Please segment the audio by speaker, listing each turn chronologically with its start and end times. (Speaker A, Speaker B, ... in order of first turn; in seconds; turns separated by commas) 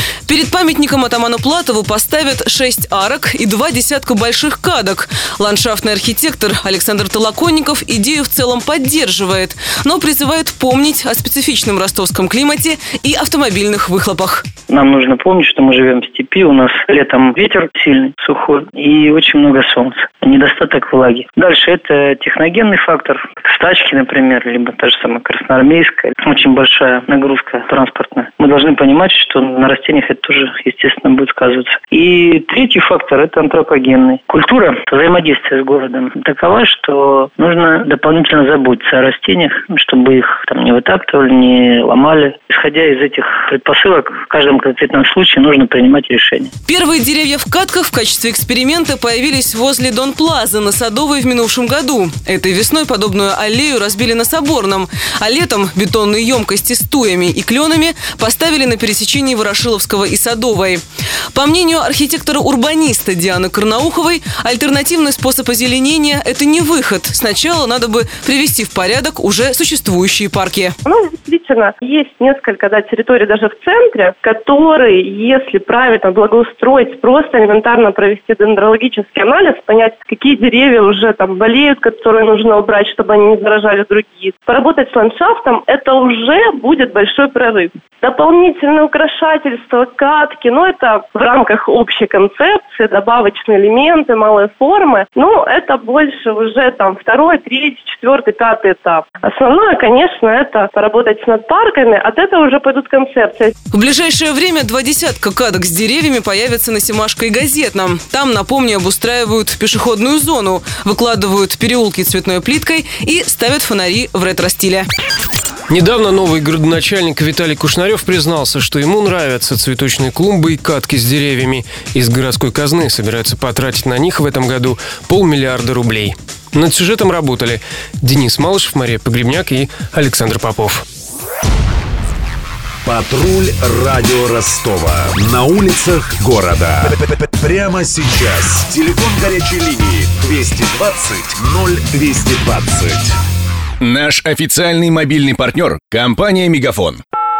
Speaker A: 0.2-14.4, Speaker B: 14.7-46.5, Speaker A: 46.7-70.8, Speaker C: 70.8-103.5, Speaker A: 103.7-114.8, Speaker D: 115.7-130.8, Speaker E: 132.8-143.1, Speaker F: 143.8-147.0